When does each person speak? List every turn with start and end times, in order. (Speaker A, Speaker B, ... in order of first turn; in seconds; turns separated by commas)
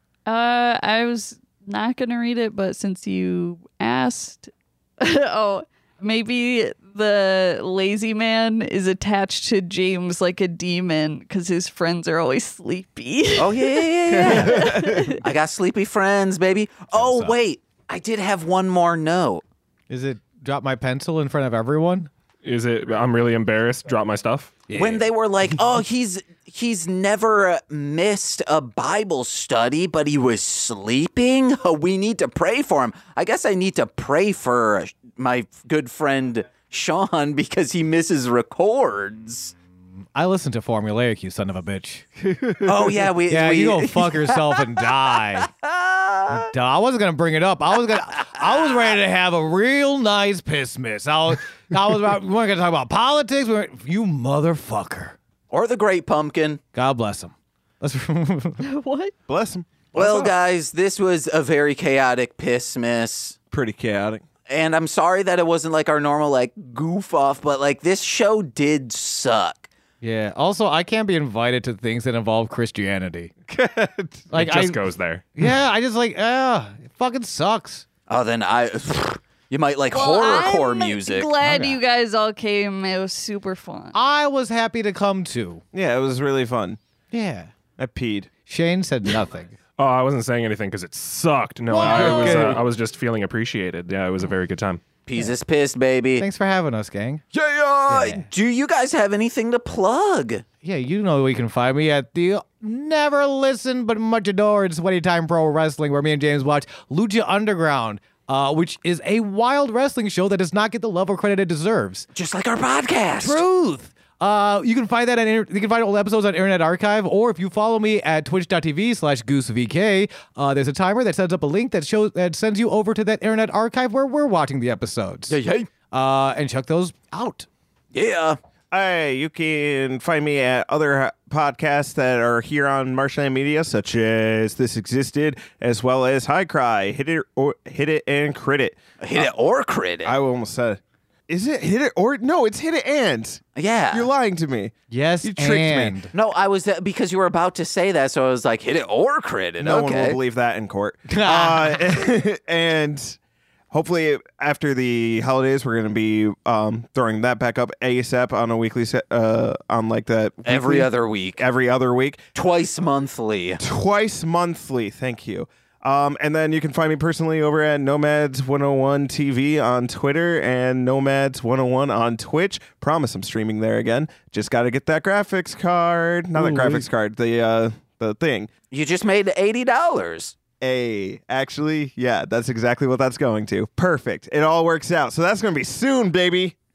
Speaker A: 0.3-15.2, Speaker B: 13.4-19.4, Speaker C: 14.2-15.2, Speaker D: 17.0-17.4, Speaker D: 19.9-22.1, Speaker E: 22.4-24.6, Speaker D: 24.7-25.1, Speaker B: 24.8-39.5, Speaker D: 40.1-42.2, Speaker B: 42.6-46.5, Speaker D: 43.3-45.5, Speaker D: 46.3-55.2, Speaker B: 55.5-56.6, Speaker D: 56.7-58.7, Speaker A: 58.6-59.1, Speaker C: 59.3-60.3, Speaker B: 59.9-63.4, Speaker C: 63.5-64.2, Speaker B: 64.5-69.7, Speaker D: 70.0-73.3, Speaker C: 73.5-74.3, Speaker D: 74.3-74.8, Speaker E: 74.3-75.3, Speaker D: 75.4-77.8, Speaker B: 78.1-81.3, Speaker A: 79.9-84.0, Speaker D: 81.4-81.8, Speaker D: 83.9-85.6, Speaker C: 85.7-86.8, Speaker D: 87.1-87.5, Speaker C: 87.8-88.3, Speaker D: 88.5-89.6, Speaker E: 89.8-94.8, Speaker D: 91.7-92.6, Speaker C: 91.8-92.7, Speaker B: 95.1-96.3, Speaker D: 96.2-97.2, Speaker B: 97.3-100.4, Speaker D: 97.9-98.3, Speaker D: 100.6-112.1, Speaker B: 112.1-113.4, Speaker D: 113.2-125.4, Speaker B: 125.3-125.7, Speaker D: 125.9-127.5, Speaker B: 127.9-128.4, Speaker C: 128.7-139.3, Speaker B: 139.0-140.2, Speaker C: 140.0-146.1, Speaker B: 143.6-144.1, Speaker D: 144.9-146.1, Speaker B: 146.1-150.2, Speaker C: 149.6-153.2, Speaker D: 151.1-151.8, Speaker C: 153.7-162.3, Speaker B: 160.4-161.4, Speaker B: 162.3-163.6, Speaker C: 163.6-178.5, Speaker D: 176.3-176.9, Speaker B: 178.7-180.3, Speaker C: 180.6-186.6